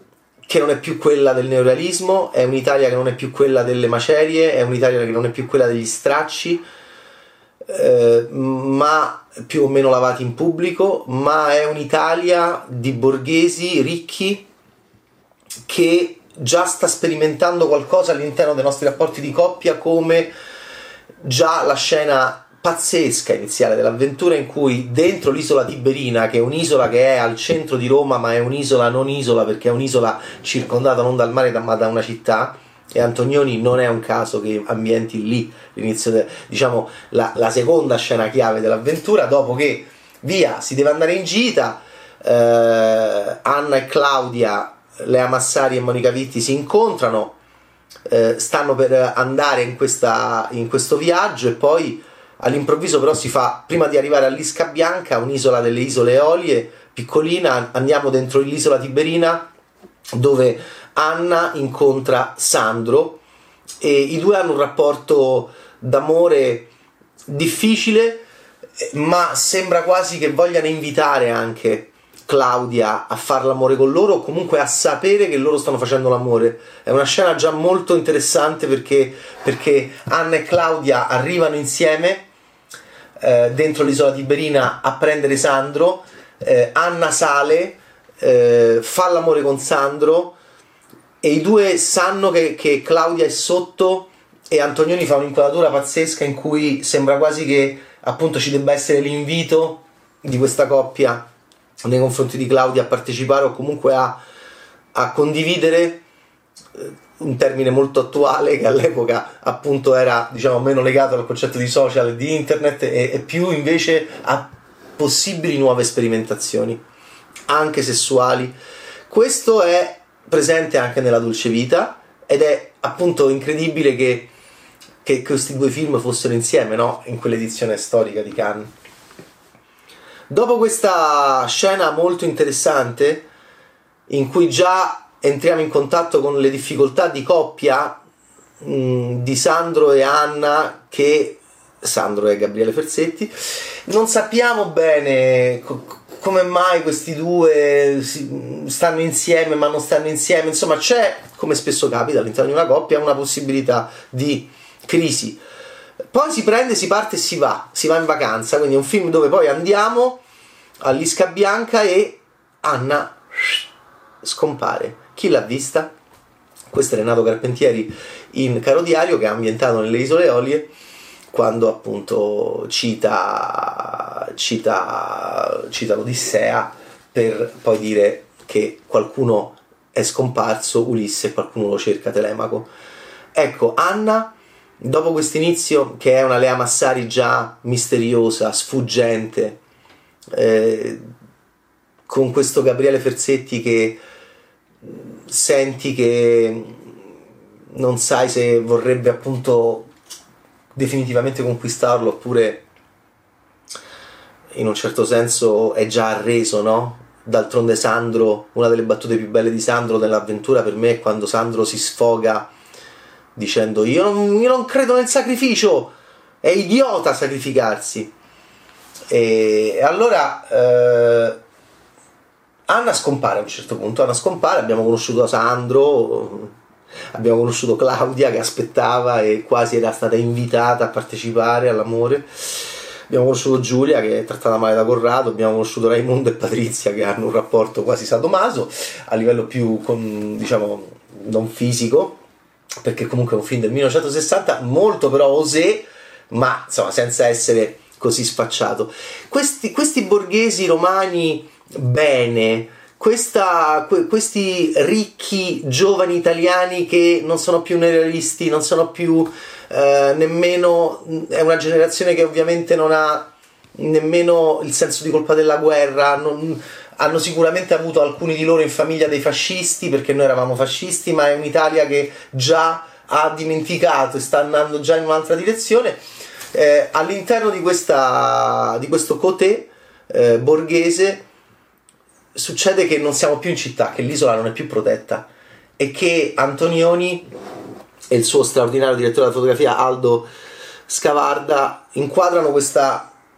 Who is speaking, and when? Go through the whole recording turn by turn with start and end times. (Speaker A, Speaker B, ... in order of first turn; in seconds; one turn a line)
Speaker A: 0.5-6.6
Speaker A: 7.7-14.5
Speaker A: 15.7-20.3
Speaker A: 21.2-47.4
Speaker A: 48.1-59.5
Speaker A: 60.1-63.2
Speaker A: 63.8-66.7
Speaker A: 67.3-68.2
Speaker A: 68.8-82.3
Speaker A: 83.2-90.3
Speaker A: 91.2-101.2
Speaker A: 101.8-104.2
Speaker A: 104.9-106.0
Speaker A: 106.8-116.8
Speaker A: 117.5-118.5
Speaker A: 119.1-124.3
Speaker A: 125.0-128.7
Speaker A: 130.3-133.3
Speaker A: 134.1-138.0
Speaker A: 138.6-143.3
Speaker A: 143.9-155.4
Speaker A: 156.1-160.2
Speaker A: 160.8-163.6
Speaker A: 164.2-165.9
Speaker A: 166.7-170.7
Speaker A: 171.3-182.7
Speaker A: 183.3-189.6
Speaker A: 190.3-191.0
Speaker A: 192.1-194.0
Speaker A: 194.8-196.8
Speaker A: 197.7-199.9
Speaker A: 200.8-202.6
Speaker A: 204.5-212.5
Speaker A: 213.3-218.1
Speaker A: 219.1-221.4
Speaker A: 222.7-226.5
Speaker A: 227.1-242.2
Speaker A: 242.8-276.0
Speaker A: 276.5-281.2
Speaker A: 282.3-287.3
Speaker A: 288.1-290.3
Speaker A: 290.9-293.1